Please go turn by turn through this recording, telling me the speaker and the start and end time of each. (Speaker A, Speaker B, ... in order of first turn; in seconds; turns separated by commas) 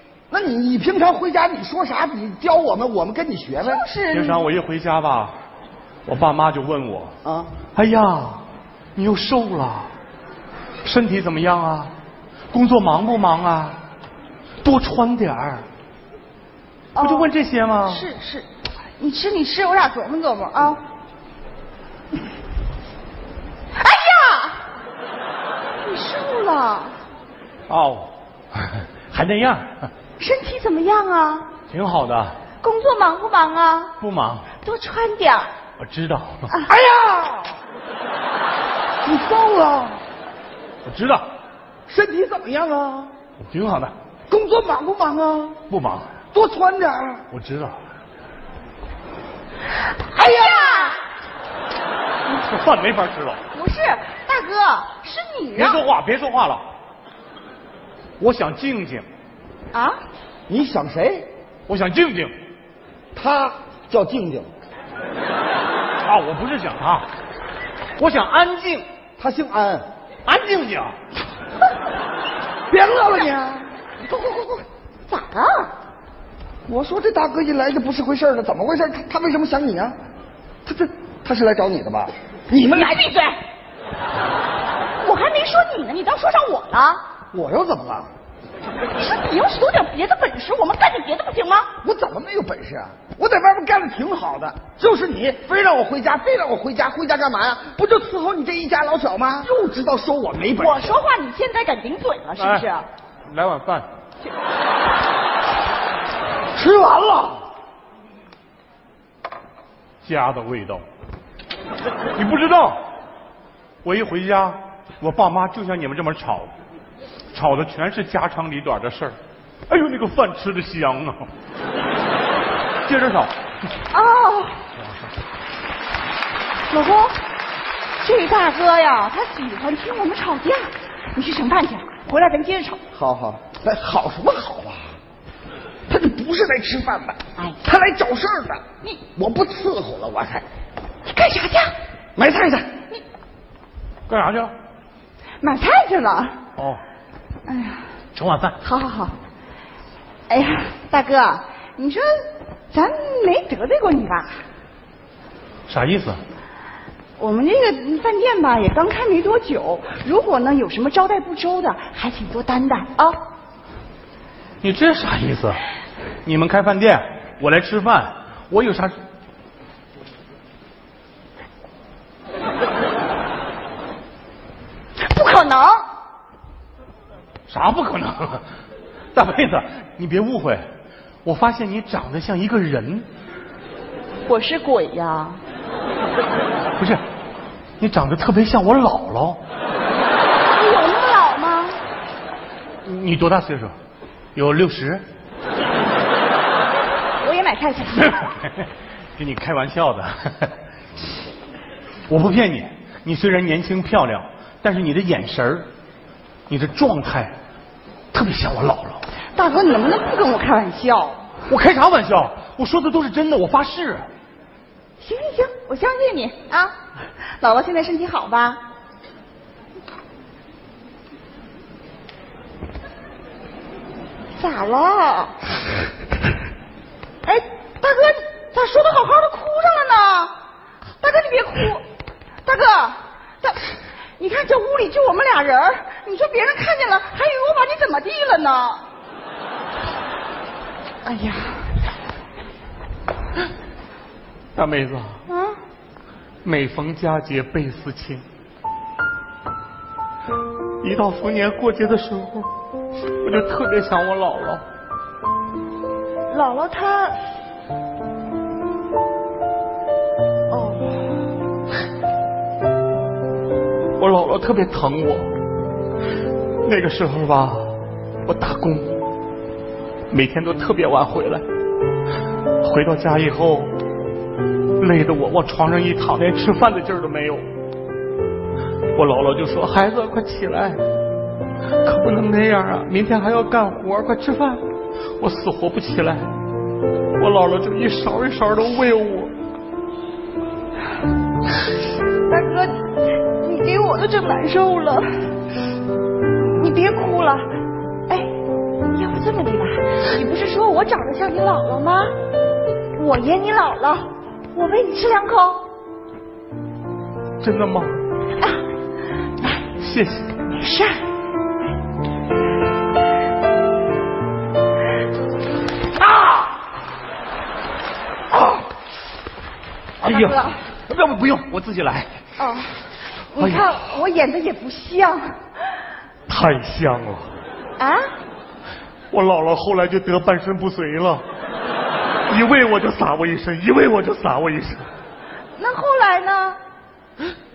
Speaker A: 0.3-3.9, Speaker B: 3.6-4.4, Speaker C: 4.1-5.3, Speaker C: 6.1-7.1, Speaker A: 7.2-7.5, Speaker C: 7.7-8.4, Speaker C: 9.0-9.9, Speaker C: 10.8-11.9, Speaker C: 12.5-13.8, Speaker C: 14.6-15.7, Speaker B: 16.9-17.3, Speaker C: 17.0-18.1, Speaker B: 17.8-20.8, Speaker B: 23.8-24.6, Speaker B: 25.8-27.0, Speaker C: 27.7-29.9, Speaker B: 30.2-31.5, Speaker C: 31.7-32.4, Speaker B: 32.6-34.0, Speaker C: 34.0-34.5, Speaker B: 34.6-35.5, Speaker C: 35.8-36.5, Speaker A: 36.7-37.6, Speaker A: 39.0-40.0, Speaker C: 40.9-41.2, Speaker A: 41.9-43.1, Speaker C: 43.4-43.9, Speaker A: 44.3-45.6, Speaker C: 45.7-46.1, Speaker A: 46.3-47.2, Speaker C: 47.3-47.7, Speaker B: 50.0-51.0, Speaker A: 50.2-50.8, Speaker C: 52.3-53.4, Speaker B: 53.5-55.8, Speaker C: 55.6-56.6, Speaker C: 58.2-59.0, Speaker B: 59.7-60.0, Speaker A: 60.5-61.3, Speaker C: 61.7-62.3, Speaker A: 63.1-64.5, Speaker C: 66.0-67.1, Speaker C: 68.0-68.8, Speaker A: 69.2-69.8, Speaker C: 70.3-70.9, Speaker A: 72.7-73.7, Speaker A: 74.2-74.5, Speaker B: 75.1-75.7, Speaker A: 76.7-80.0, Speaker A: 80.7-82.9, Speaker B: 82.6-83.4, Speaker B: 85.0-87.0, Speaker A: 87.3-88.1, Speaker B: 89.0-91.7, Speaker A: 91.8-101.0, Speaker B: 100.6-102.9, Speaker C: 102.4-102.7, Speaker C: 103.3-103.9, Speaker A: 106.5-107.4, Speaker C: 110.0-110.8, Speaker C: 112.2-112.8, Speaker C: 113.8-116.5, Speaker C: 117.3-119.2, Speaker C: 119.7-121.2, Speaker C: 122.9-123.3, Speaker B: 123.9-124.6, Speaker B: 126.7-127.2, Speaker B: 128.0-132.8, Speaker A: 132.9-134.9, Speaker A: 135.9-138.6, Speaker A: 139.2-140.4, Speaker B: 141.1-141.8, Speaker A: 142.2-142.7, Speaker C: 144.1-144.5, Speaker B: 145.4-146.4, Speaker C: 146.6-146.8, Speaker B: 147.5-147.8, Speaker C: 148.2-148.6, Speaker B: 148.6-149.2, Speaker B: 150.3-154.4, Speaker C: 155.7-156.2, Speaker B: 157.2-163.2, Speaker C: 164.6-165.6, Speaker C: 166.2-168.9, Speaker B: 175.0-175.8, Speaker C: 177.5-178.4, Speaker C: 179.2-180.6, Speaker C: 181.2-183.1, Speaker B: 184.3-185.4, Speaker C: 187.8-189.4, Speaker B: 190.5-191.8, Speaker C: 192.8-193.8, Speaker C: 194.3-195.0, Speaker B: 197.2-198.3, Speaker C: 198.0-200.5, Speaker C: 202.1-205.7, Speaker C: 206.5-207.3, Speaker C: 208.1-209.0, Speaker B: 209.3-211.3, Speaker C: 211.5-214.1, Speaker B: 215.0-216.7, Speaker B: 217.4-218.6, Speaker B: 224.4-225.4, Speaker B: 227.2-230.3, Speaker B: 231.0-231.8, Speaker B: 232.4-238.8, Speaker B: 241.0-241.7, Speaker C: 244.6-245.2, Speaker B: 245.3-245.6, Speaker C: 246.4-248.2, Speaker C: 250.8-252.5, Speaker C: 253.2-254.6, Speaker B: 256.3-257.2, Speaker B: 260.5-261.1, Speaker C: 264.0-265.3, Speaker C: 266.6-267.8, Speaker C: 268.3-269.0, Speaker C: 270.1-271.4, Speaker C: 272.6-273.7, Speaker C: 274.8-277.5, Speaker C: 278.9-280.8, Speaker C: 281.8-284.6, Speaker C: 285.2-286.3, Speaker C: 287.2-289.3, Speaker B: 292.3-295.0, Speaker B: 296.5-297.5, Speaker B: 298.9-302.1, Speaker B: 303.0-305.7, Speaker C: 307.4-307.9, Speaker C: 309.8-310.4, Speaker B: 310.5-311.0, Speaker C: 320.0-322.1, Speaker B: 320.0-320.6, Speaker B: 322.4-322.7, Speaker B: 323.3-325.4, Speaker C: 323.4-323.8, Speaker C: 326.3-327.3, Speaker B: 327.8-328.1, Speaker C: 329.1-331.2, Speaker C: 332.3-334.9, Speaker B: 335.6-336.6